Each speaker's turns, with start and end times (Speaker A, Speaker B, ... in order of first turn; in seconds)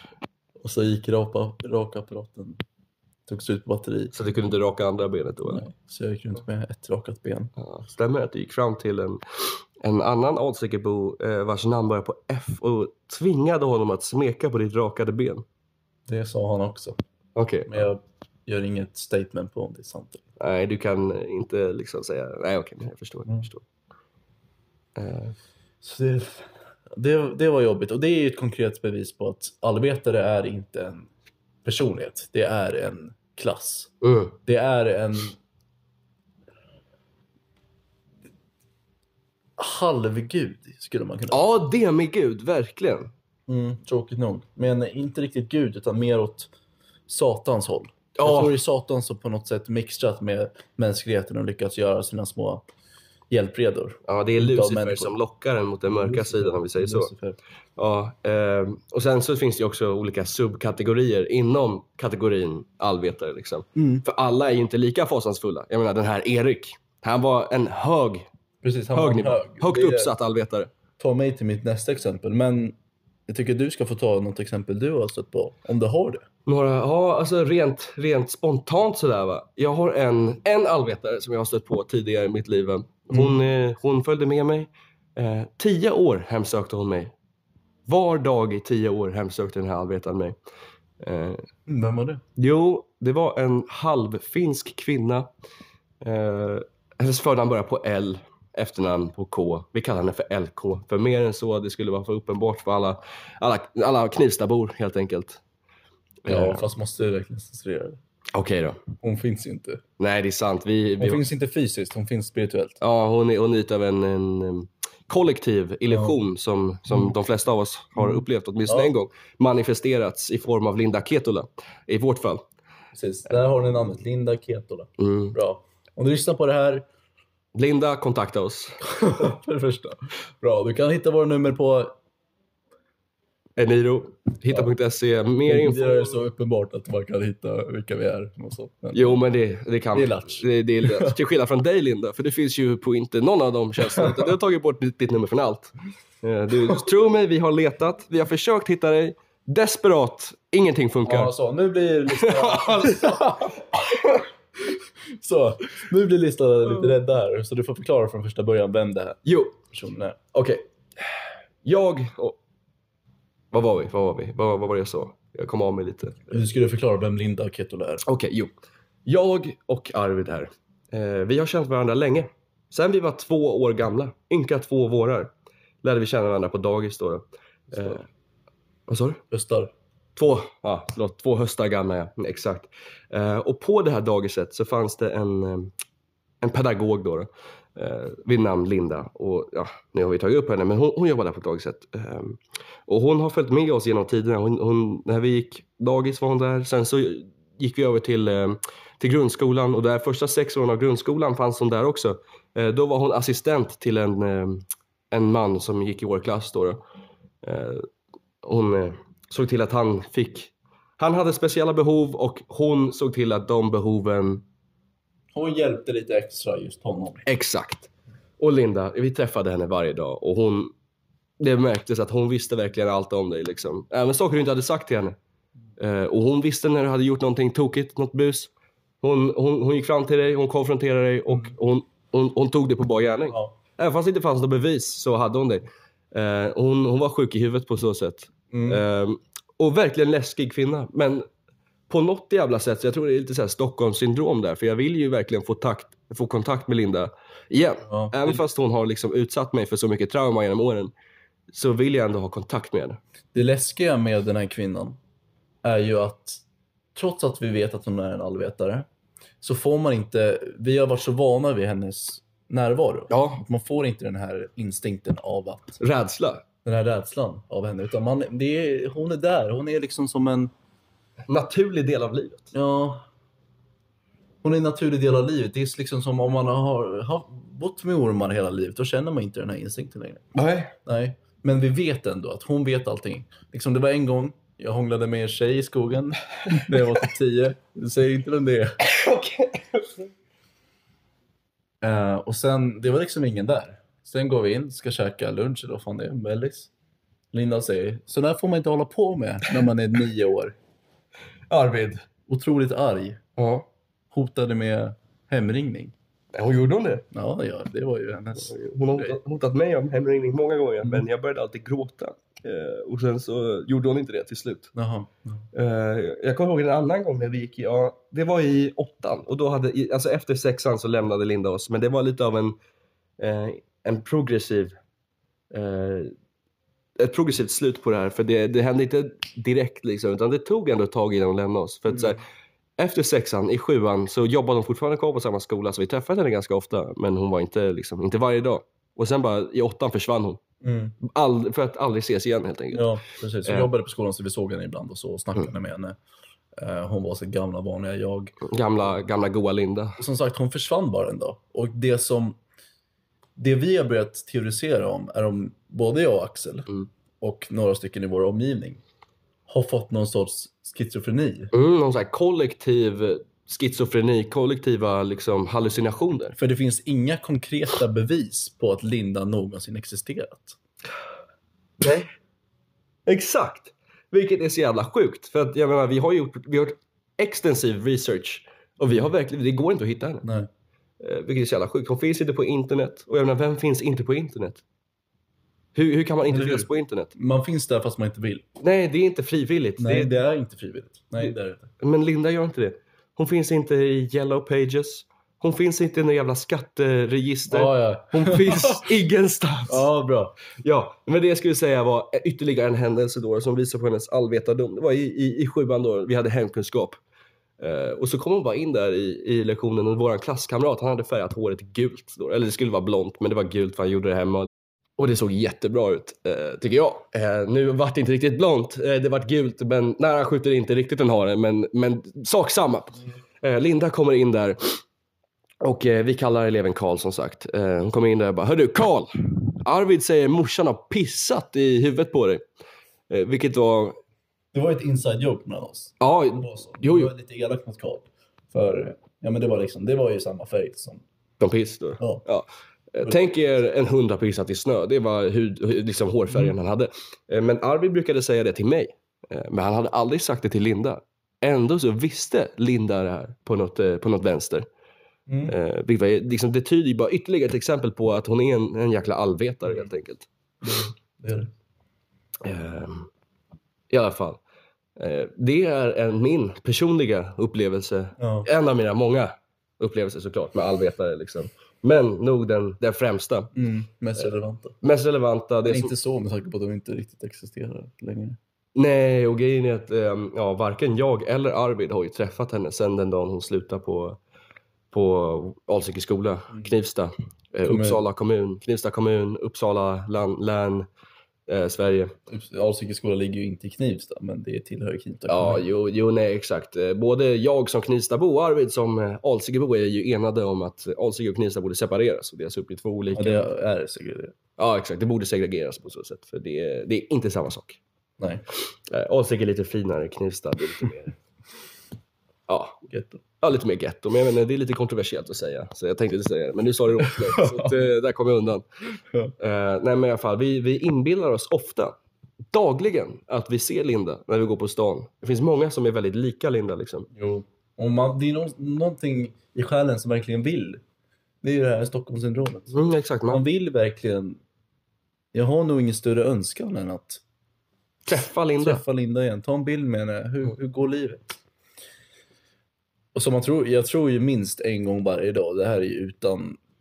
Speaker A: 0.6-2.6, 3.3-4.1, 5.5-7.5, 16.1-17.0, 17.7-20.2, 25.8-31.1, 31.6-33.9, 34.4-35.4, 39.6-41.4, 43.5-46.5, 47.1-52.6, 53.3-55.1, 55.9-57.4, 63.7-64.0, 68.6-70.1, 71.0-72.7, 73.3-76.2, 91.7-92.2, 106.2-108.0, 109.0-109.8, 111.0-112.8, 115.9-116.2, 118.0-118.9, 122.9-126.8, 128.8-131.9, 135.4-139.2, 139.9-141.2, 143.9-144.2, 151.0-154.0, 155.1-160.2, 166.3-168.0, 179.3-179.7, 215.3-217.2, 238.5-238.8, 247.8-248.4, 253.3-255.0, 255.6-256.4, 256.9-258.9, 259.4-265.8, 266.6-270.5, 272.5-273.0, 274.4-280.2, 280.8-288.8, 291.8-296.7, 297.3-300.5, 302.3-303.2, 304.1-305.9, 307.1-309.1, 314.7-315.4, 331.9-332.2, 340.6-340.9, 342.7-345.9, 346.6-348.4, 350.0-352.4, 353.4-356.7, 357.2-358.8, 359.5-361.5, 366.4-370.6, 380.2-380.5, 386.3-388.4, 389.8-391.7, 397.5-398.9, 399.7-400.4, 434.5-441.0, 455.3-455.5, 460.6-461.5, 468.2-468.5, 473.5-474.8, 475.6-478.4, 487.6-488.0, 492.3-495.6, 503.1-504.3, 508.2-508.4, 512.9-513.2, 517.0-517.7, 527.1-530.8, 531.4-532.7, 533.3-534.4, 535.3-537.2, 538.6-541.2, 543.1-546.6
Speaker B: 4.1-5.7, 7.6-15.4, 17.4-17.8, 20.4-23.6, 24.9-25.3, 34.0-34.4, 41.3-43.1, 48.2-48.5, 54.0-57.1, 57.8-68.2, 68.9-70.7, 76.5-87.1, 87.8-90.3, 91.0-91.4, 92.4-95.3, 96.0-105.4, 106.2-106.6, 108.3-108.8, 110.0-111.2, 112.8-122.4, 125.0-125.3, 127.5-128.8, 133.6-136.1, 138.9-151.3, 152.2-153.2, 159.2-159.6, 160.3-160.6, 161.6-162.4, 163.5-166.3, 168.0-168.5, 169.1-175.3, 175.8-178.1, 178.9-179.2, 180.2-185.7, 186.4-206.8, 207.4-207.9, 208.4-214.4, 217.2-220.7, 221.4-225.2, 225.8-228.5, 229.0-241.2, 241.9-250.9, 251.5-253.0, 263.1-263.4, 265.8-266.4, 271.3-272.5, 280.3-280.7, 288.8-290.0, 301.5-302.1, 303.4-303.7, 306.3-307.0, 308.4-314.7, 315.5-322.5, 323.2-324.8, 325.5-326.1, 327.0-332.2, 332.8-340.4, 341.0-342.9, 348.4-350.0, 361.5-366.4, 371.8-372.1, 373.1-380.3, 381.0-384.6, 385.7-387.1, 388.6-390.1, 391.8-399.9, 400.5-407.0, 407.6-424.8, 425.6-432.4, 433.1-434.0, 436.0-437.1, 441.4-454.6, 455.5-460.3, 462.4-463.1, 463.9-464.4, 465.0-473.5, 474.8-475.9, 478.7-484.2, 484.9-490.9, 491.5-492.1, 495.3-503.4, 504.6-507.8, 508.9-511.1, 512.5-512.8, 513.4-518.6, 519.4-521.9, 522.5-527.1, 532.7-533.4, 538.1-538.8